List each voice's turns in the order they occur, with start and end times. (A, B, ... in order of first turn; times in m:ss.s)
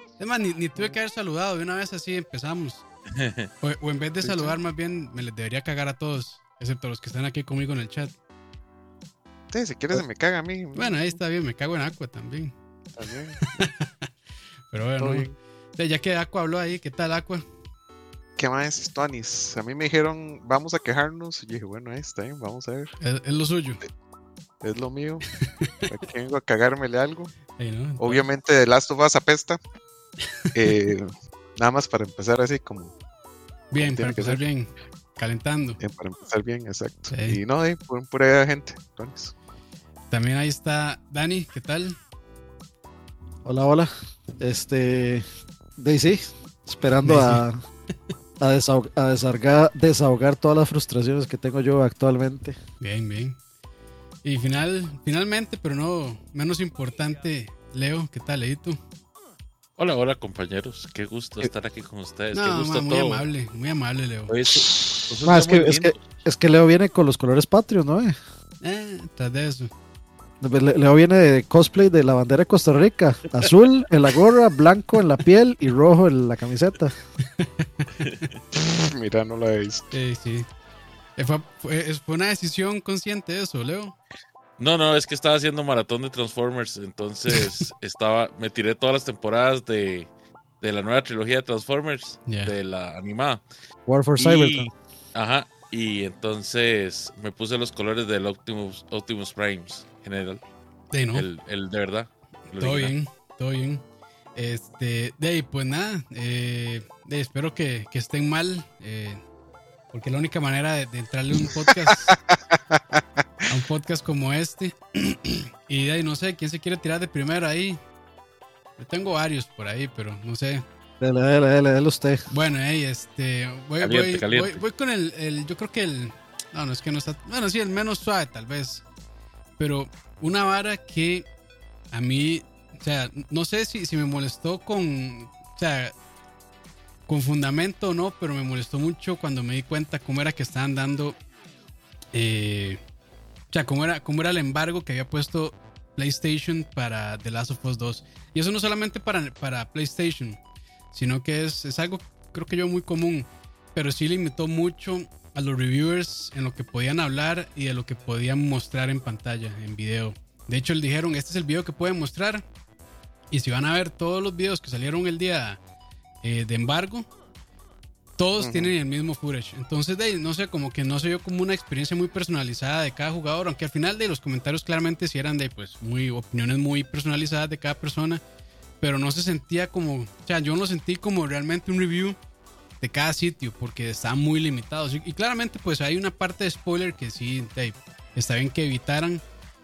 0:00.2-0:02.8 A
0:03.2-0:03.5 B
0:03.6-0:08.1 A
0:04.2-0:04.6 C
0:09.5-0:11.2 C
0:10.8-0:12.6 A
0:13.0-0:13.5 C
0:13.4-0:14.1 A
0:14.7-0:17.4 A
0:15.0-0:15.3 C
0:18.4-0:22.9 C
0:23.0-0:23.8 A
0:24.6-0:25.3 C
0:25.8-0:27.3 C
0:27.6-0:28.3 A
0:28.0-0:29.6 C
0:30.5-0:32.9 C
0:33.7-0:35.8 A
0:33.8-0:34.4 C
0:35.8-0:39.3 C
0:37.1-0:37.4 A
0:40.1-0:42.0 A
0:43.4-0:45.2 D
0:45.8-0:47.6 D
0:47.0-0:47.4 A
0:48.4-0:52.6 D
0:52.8-0:53.4 A
0:54.2-0:58.8 A
0:59.8-1:03.3 B
1:02.3-1:04.3 A
1:04.3-1:06.0 B
1:04.6-1:05.0 C
1:05.2-1:08.2 D
1:08.6-1:09.7 A
1:10.4-1:17.0 D
1:17.4-1:17.9 A
1:18.5-1:19.9 C
1:19.9-1:20.5 A
1:21.2-1:23.9 A
1:24.6-1:30.1 B
1:30.6-1:33.4 B
1:32.3-1:32.5 A
1:33.9-1:34.7 D
1:34.2-1:40.4 B
1:40.9-1:41.3 A
1:41.1-1:42.9 B
1:42.6-1:43.8 A
1:44.4-1:49.2 A
1:49.9-1:52.2 A
1:51.9-1:53.0 C
1:53.5-1:57.8 A
1:58.8-2:00.7 A
2:01.0-2:02.2 D
2:02.3-2:08.8 A
2:03.8-2:04.6 B
2:09.6-2:11.3 A
2:11.9-2:15.9 A
2:17.1-2:21.2 A
2:22.1-2:22.8 A
2:23.5-2:30.4 A
2:30.9-2:42.4 A
2:43.3-2:45.6 A
2:46.2-2:47.1 A
2:48.2-2:58.2 A
2:48.4-2:48.7 C
2:58.8-3:02.2 A
3:02.8-3:09.2 A